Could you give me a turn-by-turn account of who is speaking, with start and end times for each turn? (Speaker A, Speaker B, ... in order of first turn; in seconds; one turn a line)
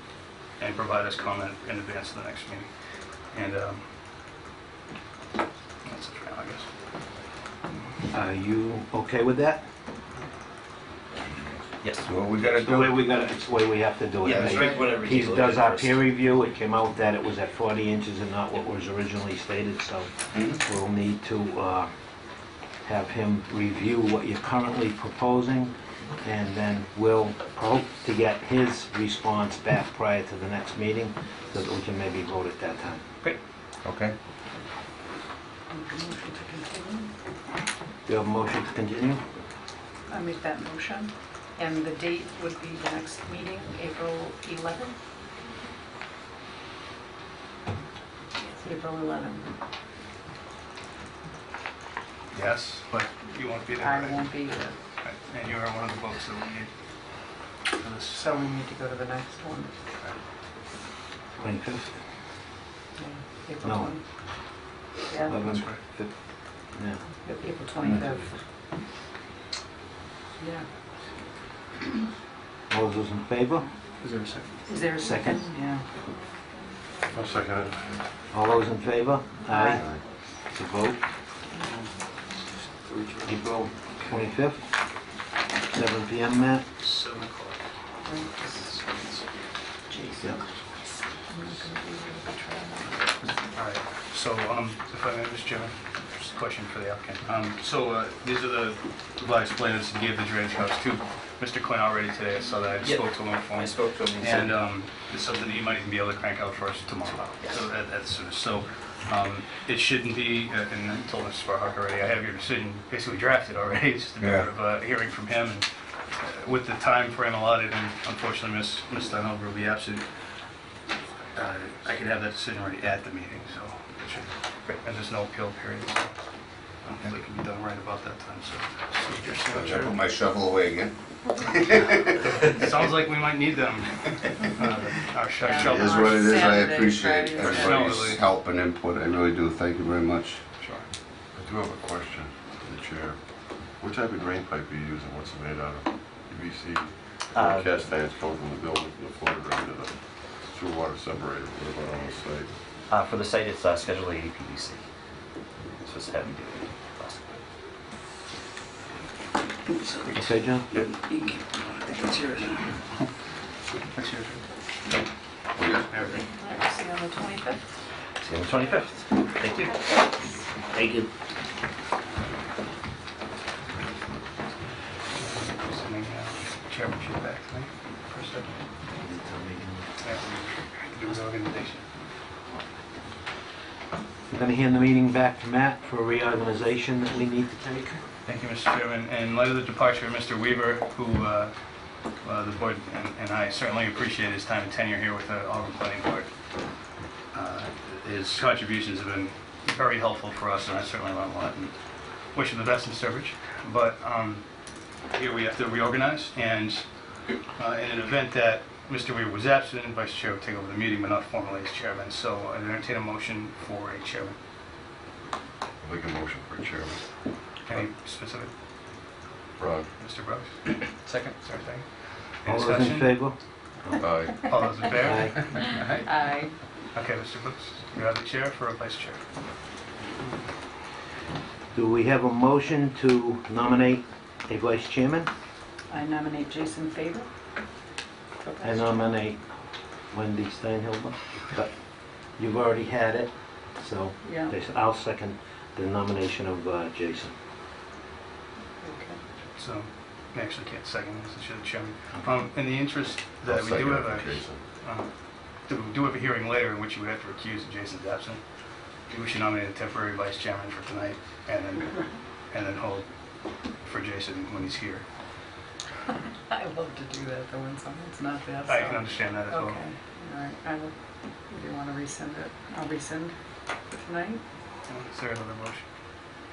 Speaker A: 0.6-3.9
Speaker A: 5.8-6.7
Speaker B: 8.1-9.6
Speaker C: 11.8-12.1
Speaker D: 12.0-12.9
Speaker B: 12.6-21.9
Speaker C: 14.2-16.0
Speaker B: 22.8-33.0
Speaker D: 33.8-34.1
Speaker E: 35.7-37.1
Speaker B: 38.1-39.2
Speaker E: 40.1-45.0
Speaker E: 48.5-49.5
Speaker A: 52.3-54.4
Speaker E: 53.8-54.8
Speaker A: 55.0-56.7
Speaker A: 57.8-58.2
Speaker E: 58.2-59.7
Speaker B: 61.4-62.0
Speaker E: 63.0-64.0
Speaker B: 63.6-64.0
Speaker B: 65.3-66.2
Speaker A: 65.5-65.8
Speaker B: 66.7-68.0
Speaker E: 67.2-68.4
Speaker E: 70.4-70.7
Speaker B: 72.7-73.7
Speaker E: 74.7-75.8
Speaker B: 74.9-75.5
Speaker F: 77.1-78.0
Speaker B: 78.3-81.0
Speaker E: 79.5-79.8
Speaker B: 83.2-84.7
Speaker B: 85.7-86.7
Speaker A: 86.8-87.6
Speaker E: 88.0-88.7
Speaker A: 88.4-89.2
Speaker E: 89.9-90.2
Speaker E: 91.3-93.1
Speaker A: 93.2-120.1
Speaker C: 102.8-104.5
Speaker C: 107.1-107.6
Speaker D: 114.2-114.5
Speaker A: 121.3-126.2
Speaker A: 126.8-130.0
Speaker D: 129.3-132.2
Speaker A: 131.8-136.3
Speaker E: 135.4-138.2
Speaker D: 135.5-140.6
Speaker A: 137.4-138.2
Speaker A: 140.6-140.8
Speaker F: 141.3-152.5
Speaker C: 147.3-147.7
Speaker C: 152.9-154.8
Speaker C: 155.8-157.4
Speaker B: 160.1-160.7
Speaker A: 161.6-163.1
Speaker A: 163.9-164.4
Speaker D: 165.6-165.8
Speaker A: 165.9-166.2
Speaker E: 166.1-167.6
Speaker C: 168.2-169.7
Speaker A: 175.1-178.6
Speaker B: 179.0-179.9
Speaker A: 180.0-181.9
Speaker B: 184.3-188.0
Speaker A: 188.2-196.3
Speaker A: 197.3-214.4
Speaker F: 215.8-217.0
Speaker A: 217.7-218.5
Speaker F: 219.6-219.9
Speaker A: 220.0-223.2
Speaker B: 222.4-224.0
Speaker F: 224.0-224.9
Speaker A: 224.4-226.0
Speaker B: 225.0-225.7
Speaker E: 225.9-226.6
Speaker A: 226.9-229.2
Speaker B: 231.7-235.3
Speaker E: 235.9-237.3
Speaker E: 238.4-239.0
Speaker B: 238.6-239.4
Speaker B: 240.1-241.7
Speaker B: 242.4-247.3
Speaker E: 244.2-244.5
Speaker E: 248.8-249.2
Speaker A: 249.6-258.4
Speaker F: 253.4-254.6
Speaker A: 259.0-265.1
Speaker E: 266.5-273.4
Speaker A: 268.7-269.9
Speaker E: 273.9-274.4
Speaker A: 274.9-275.9